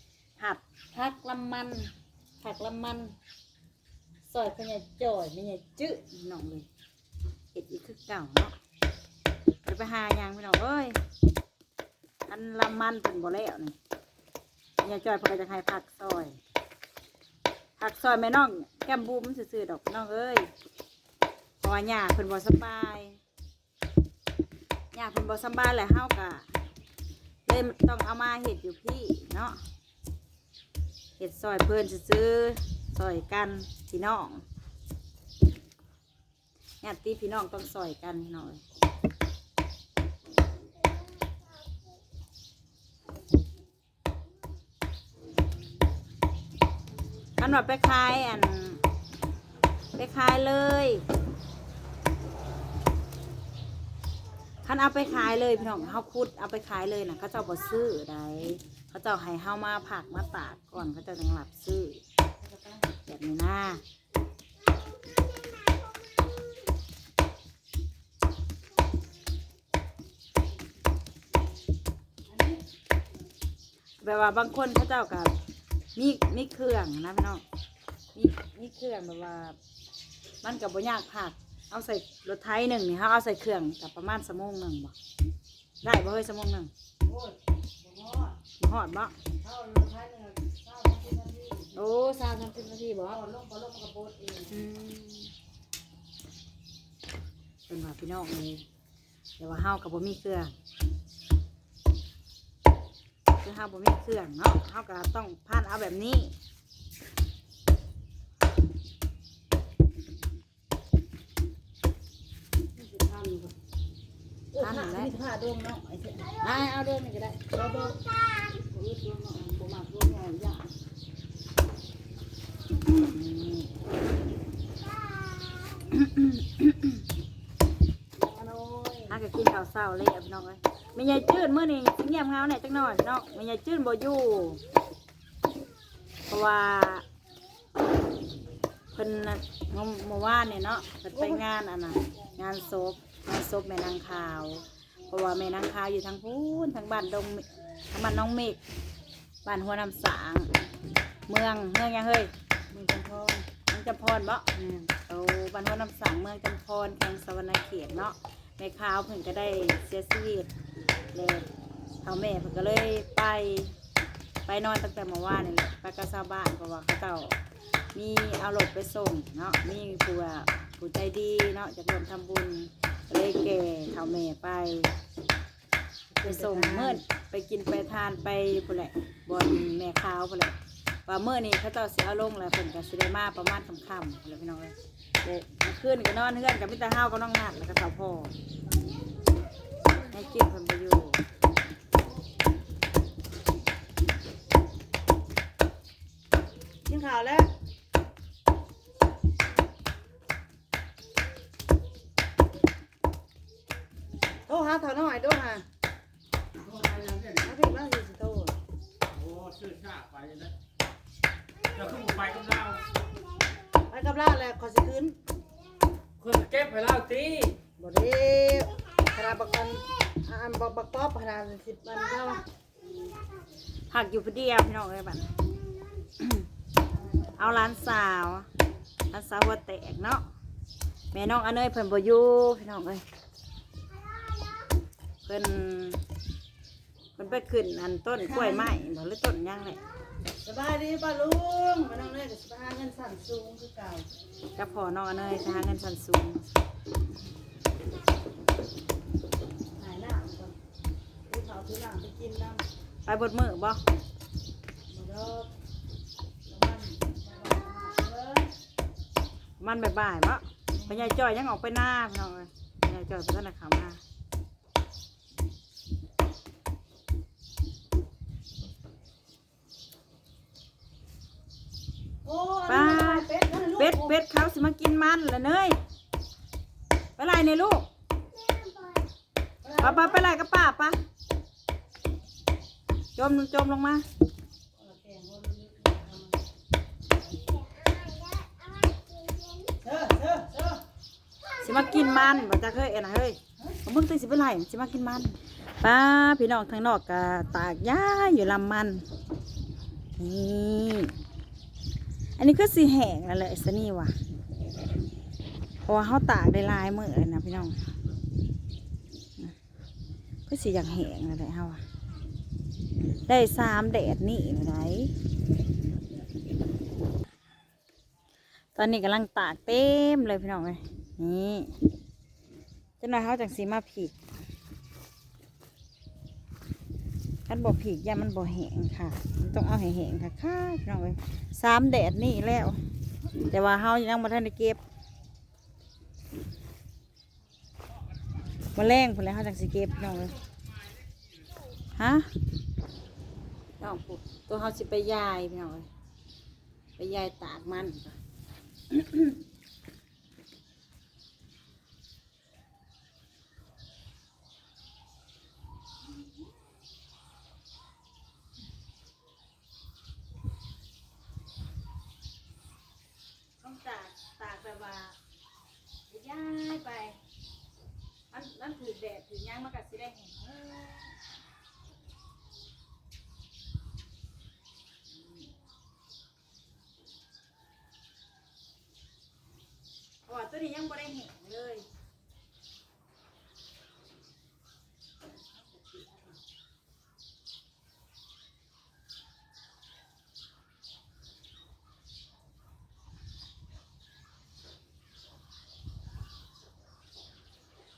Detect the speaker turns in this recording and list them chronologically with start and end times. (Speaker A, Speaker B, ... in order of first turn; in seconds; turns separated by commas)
Speaker A: 0.4-3.1, Speaker A: 4.2-6.7, Speaker A: 7.5-8.5, Speaker A: 9.6-11.0, Speaker A: 12.3-13.8, Speaker A: 14.8-16.4, Speaker A: 17.8-20.5, Speaker A: 21.6-23.2, Speaker A: 24.9-26.4, Speaker A: 27.4-29.6, Speaker A: 31.2-34.4, Speaker A: 36.8-38.6, Speaker A: 47.4-48.8, Speaker A: 49.9-51.0, Speaker A: 54.6-62.0, Speaker B: 62.4-62.9, Speaker A: 63.0-63.8, Speaker B: 72.3-72.6, Speaker A: 74.0-75.3, Speaker A: 75.9-77.4, Speaker A: 78.1-79.6, Speaker A: 80.4-84.9, Speaker A: 85.8-86.7, Speaker B: 87.0-88.4, Speaker A: 88.6-89.1, Speaker B: 89.4-91.7, Speaker A: 91.7-93.2, Speaker B: 93.1-94.7, Speaker A: 94.5-95.3, Speaker A: 97.7-98.6, Speaker A: 99.4-100.5, Speaker A: 103.4-106.3, Speaker B: 112.8-113.5, Speaker B: 114.5-116.4, Speaker A: 114.6-115.1, Speaker A: 116.3-117.4, Speaker B: 117.4-120.7, Speaker A: 122.9-123.7, Speaker A: 125.7-127.0, Speaker B: 128.2-129.2, Speaker A: 129.1-134.6, Speaker A: 136.3-137.0, Speaker A: 138.9-148.6, Speaker B: 141.1-141.4, Speaker A: 149.4-150.6, Speaker A: 151.3-152.3, Speaker B: 152.7-153.5, Speaker A: 153.7-154.5, Speaker B: 154.5-154.9, Speaker A: 155.1-160.5, Speaker A: 161.1-161.5, Speaker A: 162.0-163.8, Speaker A: 164.4-167.4, Speaker A: 167.9-174.9, Speaker B: 176.1-177.0, Speaker A: 176.2-188.3, Speaker A: 190.0-191.2, Speaker B: 196.9-197.5, Speaker B: 204.4-205.7, Speaker B: 207.0-208.6, Speaker C: 209.2-210.5, Speaker C: 211.8-212.8, Speaker B: 213.9-215.2, Speaker C: 216.2-217.6, Speaker B: 217.7-222.4, Speaker A: 223.9-225.4, Speaker A: 226.0-226.5, Speaker B: 227.2-227.7, Speaker A: 227.3-228.5, Speaker A: 229.1-230.2, Speaker A: 231.1-233.0, Speaker A: 235.2-236.0, Speaker A: 237.2-239.8, Speaker B: 238.2-238.8, Speaker B: 240.4-244.1, Speaker A: 244.5-246.6, Speaker B: 249.7-250.5, Speaker B: 251.3-252.6, Speaker A: 253.1-253.8, Speaker B: 254.9-255.5, Speaker B: 256.4-258.5, Speaker A: 259.6-264.0, Speaker B: 260.8-261.2, Speaker B: 272.2-274.2, Speaker A: 272.7-275.8, Speaker A: 277.2-277.9, Speaker B: 278.5-279.0, Speaker B: 279.6-280.3, Speaker A: 279.8-281.0, Speaker A: 283.1-284.0, Speaker B: 284.8-286.4, Speaker C: 287.9-288.5, Speaker B: 289.7-290.8, Speaker A: 291.6-299.1, Speaker A: 300.2-301.1, Speaker A: 302.4-304.1, Speaker A: 305.8-307.9, Speaker A: 310.5-311.8, Speaker A: 313.3-315.1, Speaker A: 318.7-321.7, Speaker A: 323.0-324.2, Speaker A: 327.5-332.8, Speaker A: 333.4-334.8, Speaker A: 338.7-340.4, Speaker A: 341.9-342.3, Speaker A: 343.8-345.9, Speaker A: 347.0-348.2, Speaker A: 348.9-349.4, Speaker A: 363.6-365.2, Speaker A: 366.1-367.2, Speaker A: 368.3-371.1, Speaker A: 380.3-381.9